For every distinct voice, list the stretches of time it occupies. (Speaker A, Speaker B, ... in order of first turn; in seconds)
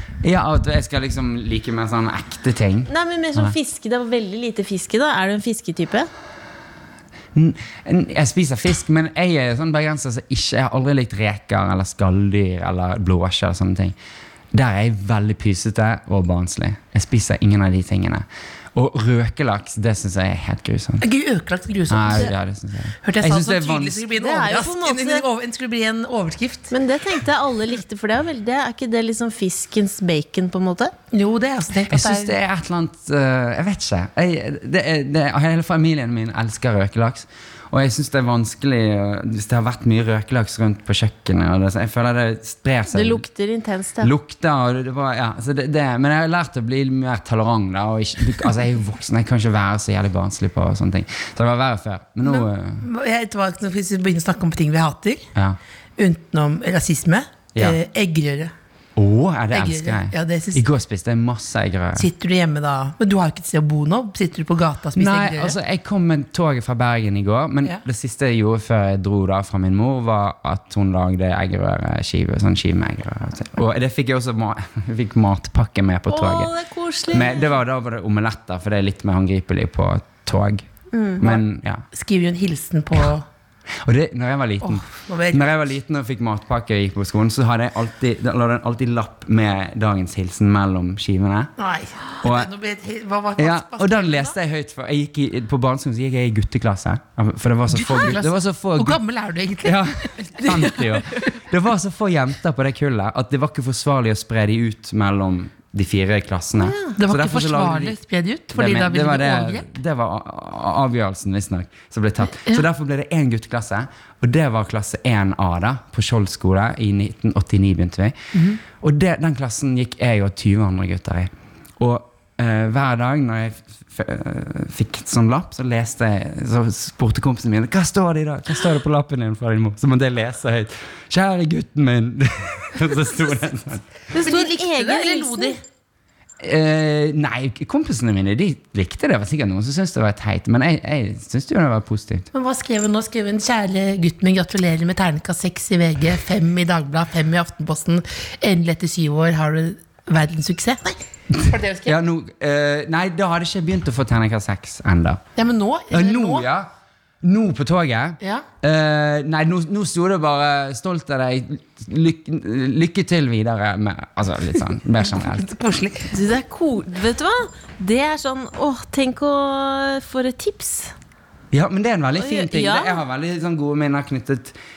Speaker A: 0.2-3.5, 7.3-13.9, 14.5-21.0, 21.9-24.0, 31.9-43.2, 44.0-52.8, 59.0-62.1, 65.0-76.5, 77.1-80.7, 81.2-81.8, 83.8-91.5, 92.2-92.5, 93.4-99.0, 99.6-107.9, 108.5-118.2, 118.7-133.9, 136.4-142.3, 151.3-155.2, 155.9-156.7, 157.2-165.4, 171.5-174.6
Speaker B: 2.9-6.1, 24.1-25.2, 26.7-30.9, 42.9-44.1, 76.1-77.6, 80.9-81.2, 106.6-106.9, 134.1-135.6, 166.1-170.9, 172.2-173.0
Speaker C: 21.0-22.3, 23.0-26.7, 31.1-32.3, 52.2-55.3, 56.0-58.5, 59.5-60.6, 62.0-65.6, 81.2-83.2, 84.6-85.5, 91.6-94.3, 97.7-101.2, 106.9-109.7, 112.3-112.6, 118.3-118.6, 134.2-135.6, 142.3-152.0, 155.3-156.4, 158.2-158.4, 165.1-166.1